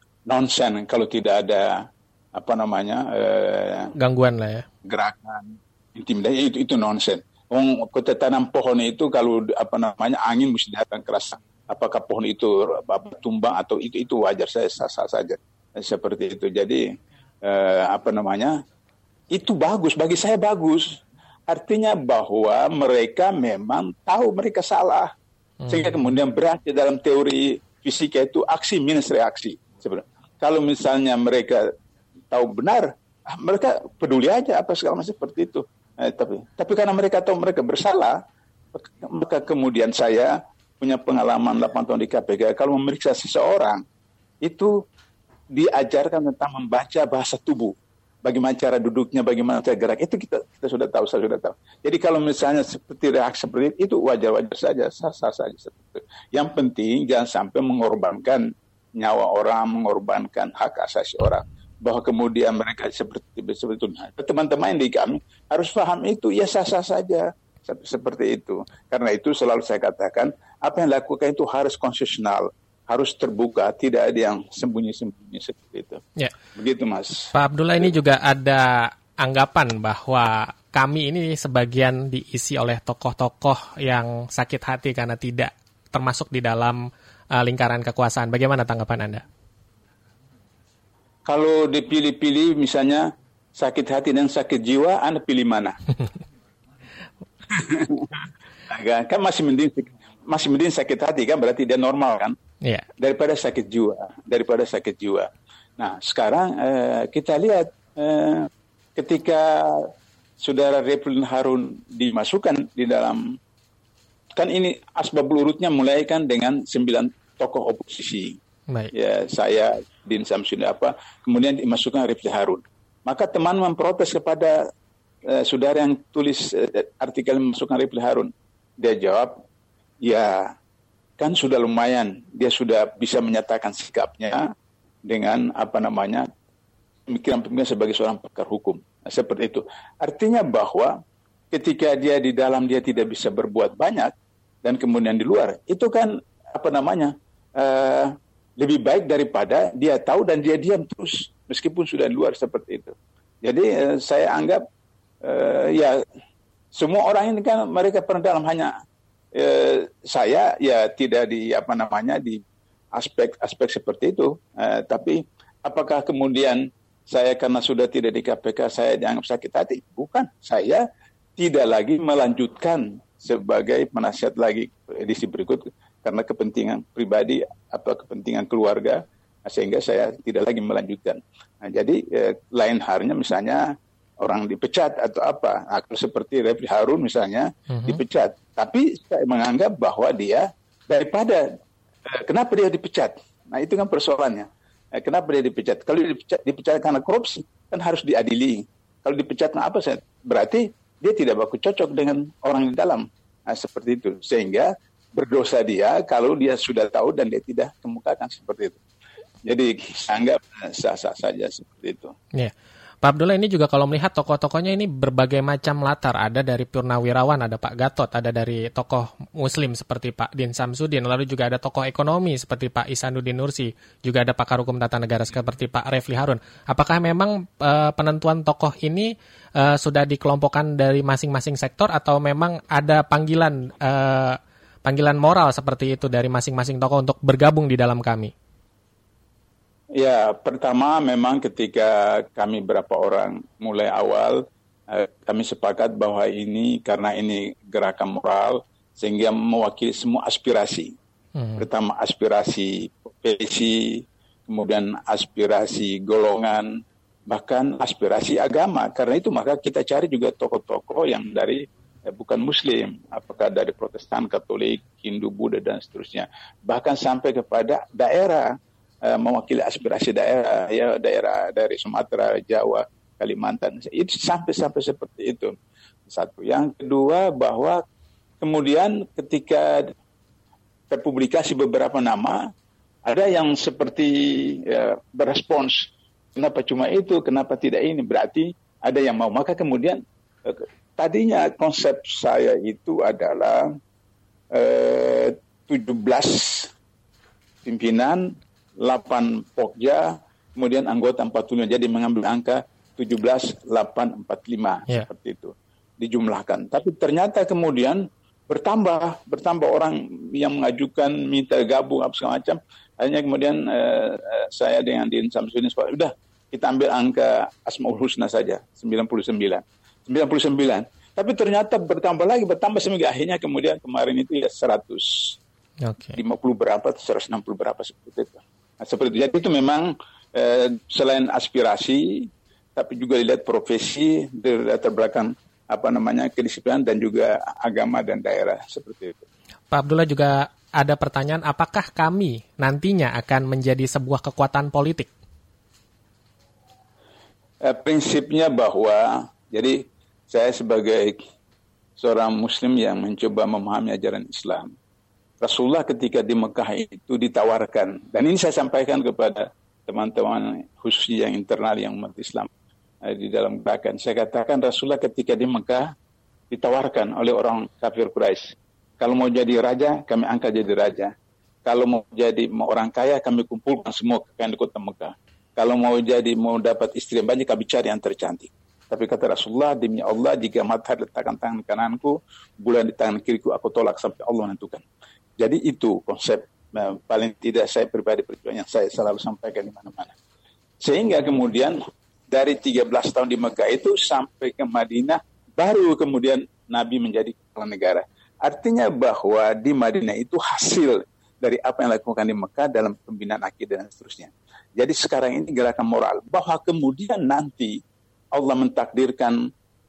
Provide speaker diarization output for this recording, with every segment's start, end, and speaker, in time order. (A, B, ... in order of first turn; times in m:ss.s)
0:00.3-0:03.9 A
0:04.0-0:04.7 B
0:04.8-0:18.6 A
0:19.3-0:21.0 A
0:21.5-0:25.1 A
0:25.6-0:26.0 B
0:25.7-0:31.7 A
0:32.3-0:38.2 A
0:38.7-0:43.8 A
0:44.4-0:44.7 A
0:45.5-1:16.0 A
1:16.6-1:17.9 A
1:17.3-1:26.8 B
1:27.3-1:29.3 B
1:31.3-1:35.9 A
1:37.5-1:38.1 A
1:38.7-1:42.4 A
1:43.0-1:53.4 A
1:54.4-1:58.4 A
1:58.9-2:04.7 A
2:05.3-2:09.4 A
2:10.0-2:10.5 A
2:11.2-2:14.5 A
2:15.1-2:16.3 A
2:17.1-2:21.0 A
2:21.5-2:24.1 A
2:24.6-2:34.6 A
2:35.2-2:36.0 A
2:36.7-2:38.7 A
2:39.3-2:42.4 A
2:42.9-2:50.8 A
2:51.4-3:11.5 A
3:07.7-3:08.0 B
3:12.1-3:28.8 A
3:29.5-3:32.1 A
3:32.3-3:58.3 B
3:59.9-4:10.9 A
4:11.4-4:11.6 B
4:11.6-4:35.6 A
4:36.1-4:37.8 A
4:38.4-4:39.9 A
4:40.9-4:42.5 A
4:43.0-4:53.7 A
4:54.5-4:56.7 A
4:57.6-5:25.4 A
5:25.8-5:26.2 B
5:26.1-5:39.2 A
5:39.7-5:45.1 B
5:47.6-5:51.2 A
5:52.0-5:54.7 A
5:55.4-6:02.5 A
6:03.0-6:05.9 A
6:06.5-6:11.1 A
6:11.6-6:24.8 A
6:25.4-6:30.2 A
6:30.8-6:31.8 A
6:32.3-6:47.8 A
6:48.4-6:49.4 A